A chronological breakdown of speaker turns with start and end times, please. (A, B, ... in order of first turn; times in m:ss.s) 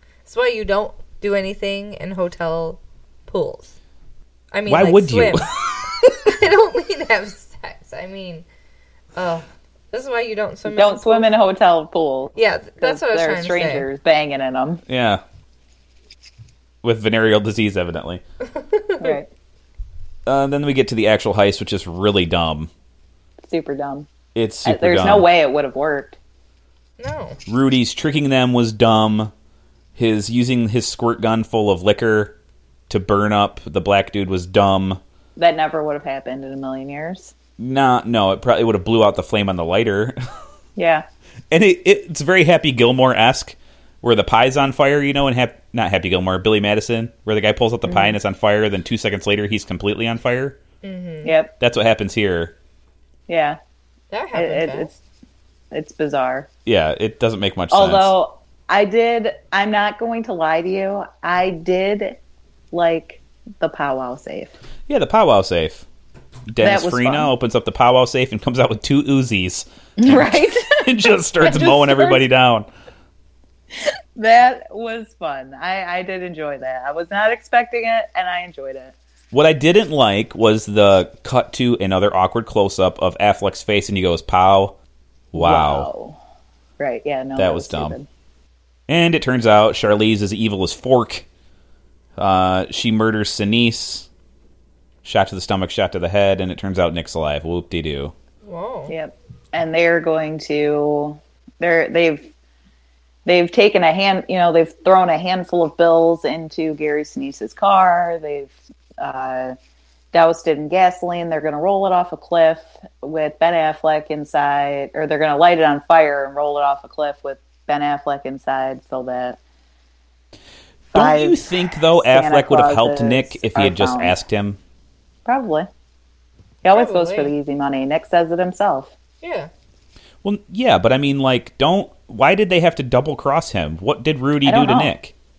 0:00.2-0:03.7 A
0:04.5-0:05.5 A
0:04.7-0:05.6 B
0:06.0-0:08.4 A
0:09.2-0:11.3 A
0:10.7-0:14.8 C
0:12.4-0:13.9 A
0:14.9-0:15.2 B
0:16.8-0:18.2 B
0:18.5-0:19.2 A
0:19.0-0:19.3 C
0:20.3-0:22.7 B
0:23.4-0:24.1 C
0:24.4-0:25.3 B
0:24.6-0:26.2 C
0:27.0-0:27.4 A
0:27.5-0:29.3 B
0:30.0-0:32.4 B
0:32.9-0:35.0 B
0:35.4-0:37.3 C
0:37.6-0:40.2 B
0:40.8-0:41.1 C
0:41.5-0:50.6 B
0:47.9-0:48.2 C
0:50.8-0:51.4 A
0:51.2-0:51.5 C
0:51.6-0:52.5 B
0:53.3-0:53.6 C
0:54.1-0:54.9 A
0:54.3-0:55.0 C
0:55.7-0:56.5 C
0:56.6-0:58.1 B
0:57.7-1:02.2 C
1:02.7-1:04.5 C
1:04.9-1:05.8 B
1:06.5-1:12.7 B
1:06.6-1:07.3 C
1:10.0-1:12.2 C
1:13.8-1:19.0 C
1:19.3-1:24.8 B
1:25.3-1:25.9 B
1:25.4-1:26.2 C
1:26.8-1:28.1 C
1:27.4-1:28.0 B
1:28.9-1:31.2 B
1:32.2-1:34.1 B
1:35.0-1:38.1 B
1:38.4-1:39.0 A
1:38.9-1:42.3 C
1:43.2-1:49.6 C
1:50.1-1:59.4 C
2:00.9-2:04.6 B
2:00.9-2:04.2 C
2:05.3-2:05.7 C
2:06.6-2:08.9 C
2:06.7-2:07.3 A
2:09.2-2:09.5 A
2:10.2-2:15.1 B
2:14.4-2:14.9 C